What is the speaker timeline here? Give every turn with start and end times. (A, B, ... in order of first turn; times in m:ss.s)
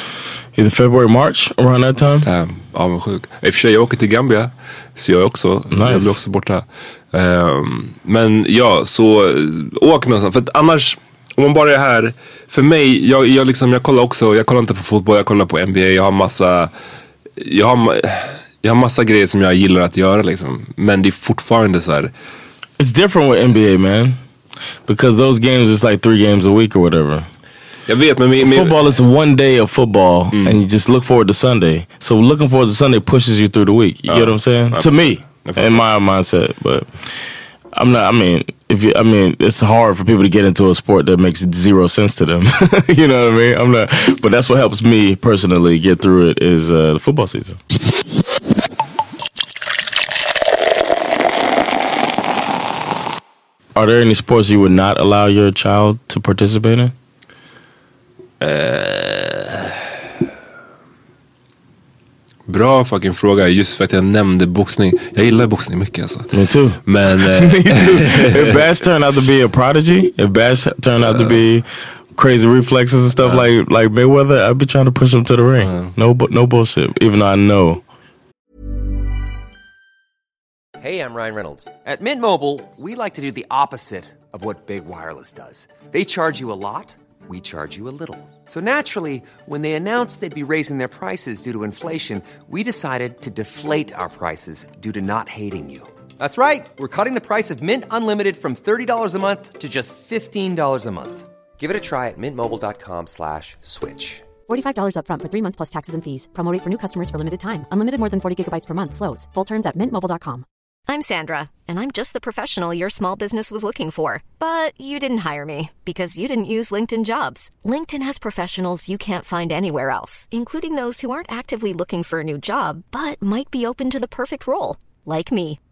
0:00.6-0:02.3 A
0:02.2-0:16.7 B
0:05.7-0:06.2 A
0:17.4-0:22.1 B
0:22.8-0:24.2 A
0:24.9-0:27.3 A
0:27.9-0:28.8 B
0:28.4-0:36.9 A
0:30.3-0:30.6 B
0:34.1-0:35.8 B
0:37.7-0:47.6 A
0:53.8-0:56.9 A
0:58.4-0:59.7 B
1:02.5-1:06.3 B
1:06.3-1:17.8 A
1:06.9-1:08.6 B
1:11.1-1:11.4 B
1:15.6-1:15.9 B
1:20.8-1:44.3 C
1:44.5-1:50.4 D
1:50.9-2:05.6 E